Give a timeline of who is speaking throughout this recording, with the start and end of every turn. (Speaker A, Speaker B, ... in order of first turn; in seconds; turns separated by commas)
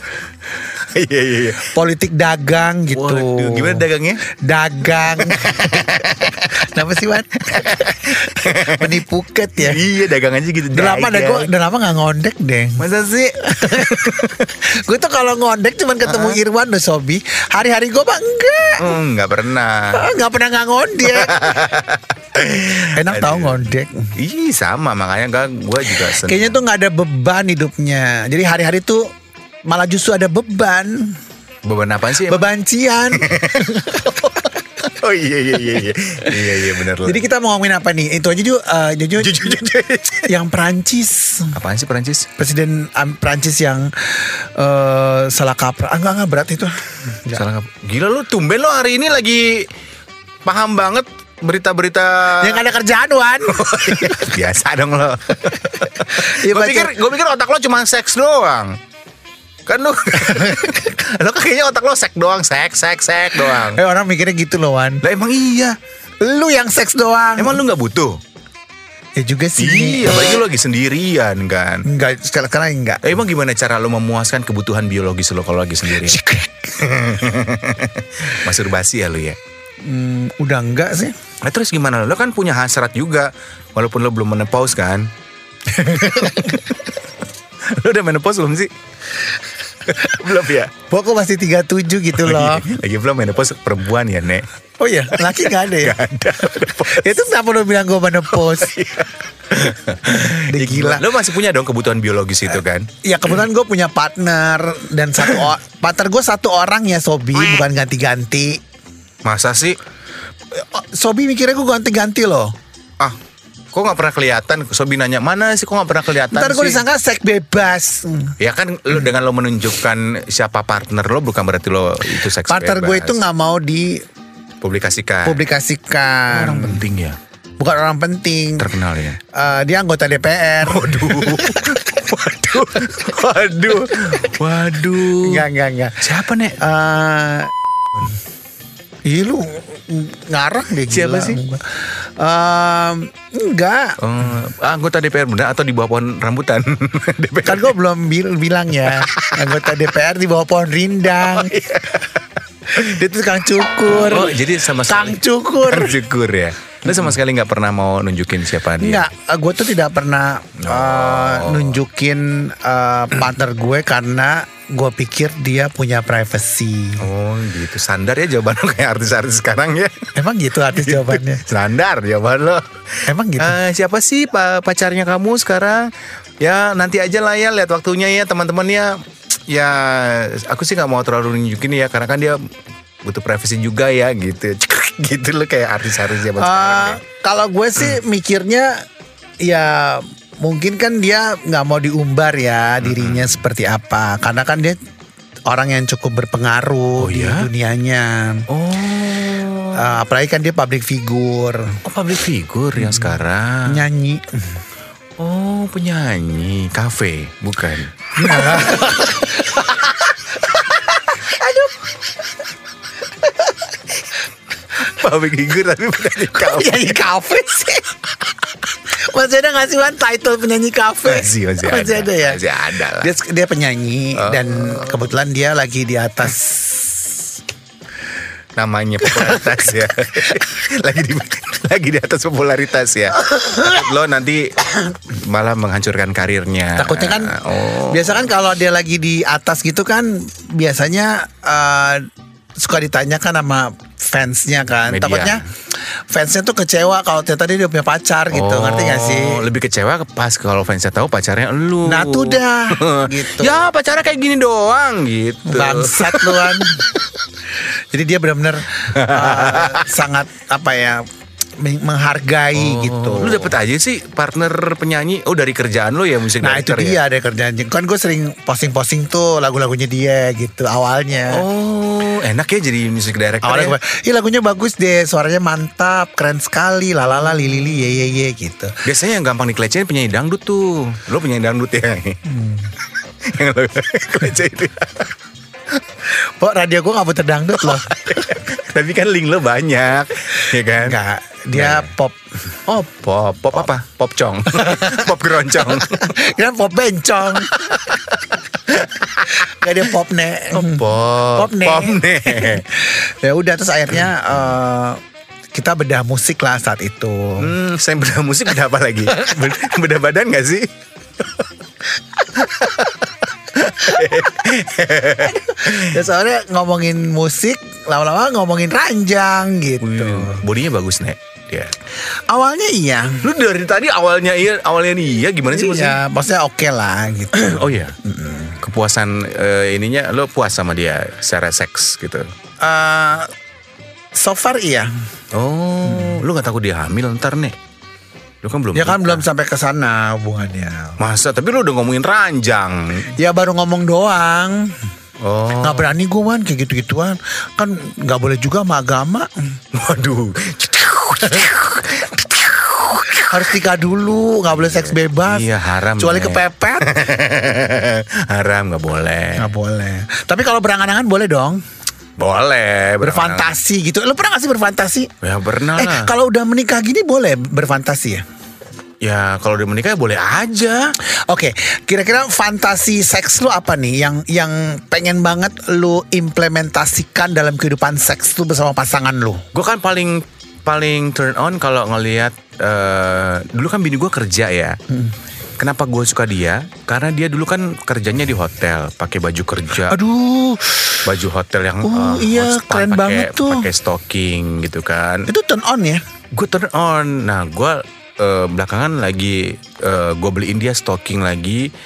Speaker A: 0.7-1.7, Speaker B: 1.6-5.7, Speaker A: 2.9-4.2, Speaker A: 5.1-6.6, Speaker B: 6.5-9.9, Speaker A: 7.4-8.9, Speaker A: 9.6-11.5, Speaker B: 10.7-12.8, Speaker A: 12.8-14.4, Speaker B: 13.4-19.0, Speaker A: 16.1-16.4, Speaker A: 18.8-20.1, Speaker B: 19.9-21.7, Speaker A: 21.0-23.6, Speaker B: 22.8-24.1, Speaker A: 24.2-26.6, Speaker B: 25.9-29.1, Speaker B: 29.7-31.2, Speaker A: 31.6-32.5, Speaker B: 32.2-34.3, Speaker A: 33.1-37.2, Speaker B: 37.0-39.7, Speaker A: 39.2-40.3, Speaker B: 40.2-41.5, Speaker A: 41.5-42.3, Speaker B: 42.4-47.5, Speaker A: 47.3-49.7, Speaker A: 50.5-52.6, Speaker B: 52.4-54.4, Speaker A: 53.5-58.8, Speaker B: 55.5-57.0, Speaker A: 59.7-63.8, Speaker B: 60.3-60.7, Speaker B: 63.4-65.0, Speaker A: 65.0-65.8, Speaker B: 66.2-67.6, Speaker A: 67.4-68.2, Speaker B: 69.2-70.4, Speaker A: 69.6-71.9, Speaker B: 71.8-73.2, Speaker A: 73.0-76.2, Speaker B: 75.9-76.8, Speaker A: 76.8-79.4, Speaker B: 79.8-81.2, Speaker A: 81.4-85.1, Speaker B: 85.7-86.7, Speaker A: 85.8-86.9, Speaker A: 87.7-88.7, Speaker A: 89.8-90.7, Speaker B: 90.9-92.7, Speaker A: 92.2-94.5, Speaker B: 94.8-96.0, Speaker A: 95.1-97.2, Speaker B: 96.6-98.8, Speaker A: 98.4-102.9, Speaker B: 100.1-101.1, Speaker B: 103.0-108.6, Speaker A: 109.2-109.8, Speaker B: 110.5-112.5, Speaker A: 113.7-116.8, Speaker B: 116.3-118.4, Speaker A: 118.4-123.2, Speaker B: 122.4-124.0, Speaker A: 124.6-125.4, Speaker B: 125.2-126.8, Speaker A: 126.3-127.2, Speaker B: 127.6-128.7, Speaker A: 128.6-129.2, Speaker B: 129.2-132.6, Speaker A: 130.6-135.5, Speaker B: 133.8-134.3, Speaker B: 135.2-136.0, Speaker A: 136.0-136.6, Speaker B: 136.6-137.5, Speaker B: 139.0-144.0, Speaker A: 140.9-141.4, Speaker A: 144.0-147.7, Speaker B: 147.4-151.6, Speaker A: 148.8-149.8, Speaker A: 151.2-153.0, Speaker B: 152.7-156.0, Speaker A: 153.9-159.1, Speaker B: 158.8-167.1, Speaker A: 160.6-161.8, Speaker A: 167.0-170.1, Speaker B: 170.2-171.4, Speaker A: 170.7-182.4, Speaker B: 173.1-173.6, Speaker A: 183.1-187.0, Speaker B: 186.3-188.9, Speaker B: 189.4-194.8, Speaker A: 192.8-193.4, Speaker B: 195.5-198.5, Speaker A: 197.0-197.5, Speaker A: 198.5-200.0, Speaker B: 199.7-201.8, Speaker A: 201.8-203.8, Speaker B: 202.8-204.6, Speaker A: 205.2-208.7, Speaker B: 208.2-211.9, Speaker B: 213.2-213.5, Speaker A: 214.7-216.9, Speaker B: 216.3-222.4, Speaker A: 221.1-223.1, Speaker B: 223.0-227.3, Speaker A: 224.2-225.0, Speaker A: 228.6-238.3, Speaker B: 229.2-229.6, Speaker B: 233.3-233.8, Speaker B: 236.8-245.4, Speaker A: 244.9-245.4, Speaker B: 246.1-249.4, Speaker A: 248.3-257.0, Speaker B: 251.8-253.7, Speaker B: 255.4-256.9, Speaker B: 257.6-261.1, Speaker A: 258.9-259.9, Speaker B: 261.6-263.6, Speaker A: 262.6-267.0, Speaker B: 266.4-271.4, Speaker A: 271.3-273.8, Speaker B: 273.4-278.8, Speaker A: 278.8-282.4, Speaker B: 282.3-282.7, Speaker A: 283.2-285.1, Speaker B: 286.1-287.9, Speaker A: 287.6-291.0, Speaker B: 290.8-292.2, Speaker A: 291.5-291.9, Speaker A: 292.7-296.2, Speaker B: 294.6-295.0, Speaker B: 296.0-297.7, Speaker A: 297.5-299.5, Speaker B: 299.3-305.0, Speaker A: 300.5-302.7, Speaker B: 305.5-307.5, Speaker A: 307.4-310.7, Speaker A: 312.3-316.0, Speaker B: 312.4-312.8, Speaker B: 315.2-320.4, Speaker A: 319.8-321.7, Speaker B: 322.1-323.2, Speaker A: 323.2-326.0, Speaker B: 325.5-328.6, Speaker A: 327.4-328.0, Speaker A: 328.6-332.3, Speaker B: 332.6-333.3, Speaker B: 334.1-334.9, Speaker A: 335.3-337.6, Speaker A: 338.4-339.2, Speaker B: 338.8-341.0, Speaker A: 341.0-343.1, Speaker B: 343.2-344.8, Speaker A: 345.2-345.9, Speaker B: 345.6-349.3, Speaker A: 349.7-353.4, Speaker B: 353.3-356.9, Speaker A: 354.5-359.5, Speaker B: 359.4-361.6, Speaker A: 362.2-363.5, Speaker B: 363.0-365.1, Speaker A: 365.2-366.1, Speaker B: 365.8-368.2, Speaker A: 369.0-371.0, Speaker B: 371.1-379.4, Speaker A: 379.5-384.8, Speaker B: 384.9-385.1, Speaker A: 385.6-390.0, Speaker B: 389.9-391.1, Speaker A: 391.1-395.3, Speaker B: 391.8-393.7, Speaker B: 395.3-396.0, Speaker A: 396.3-401.7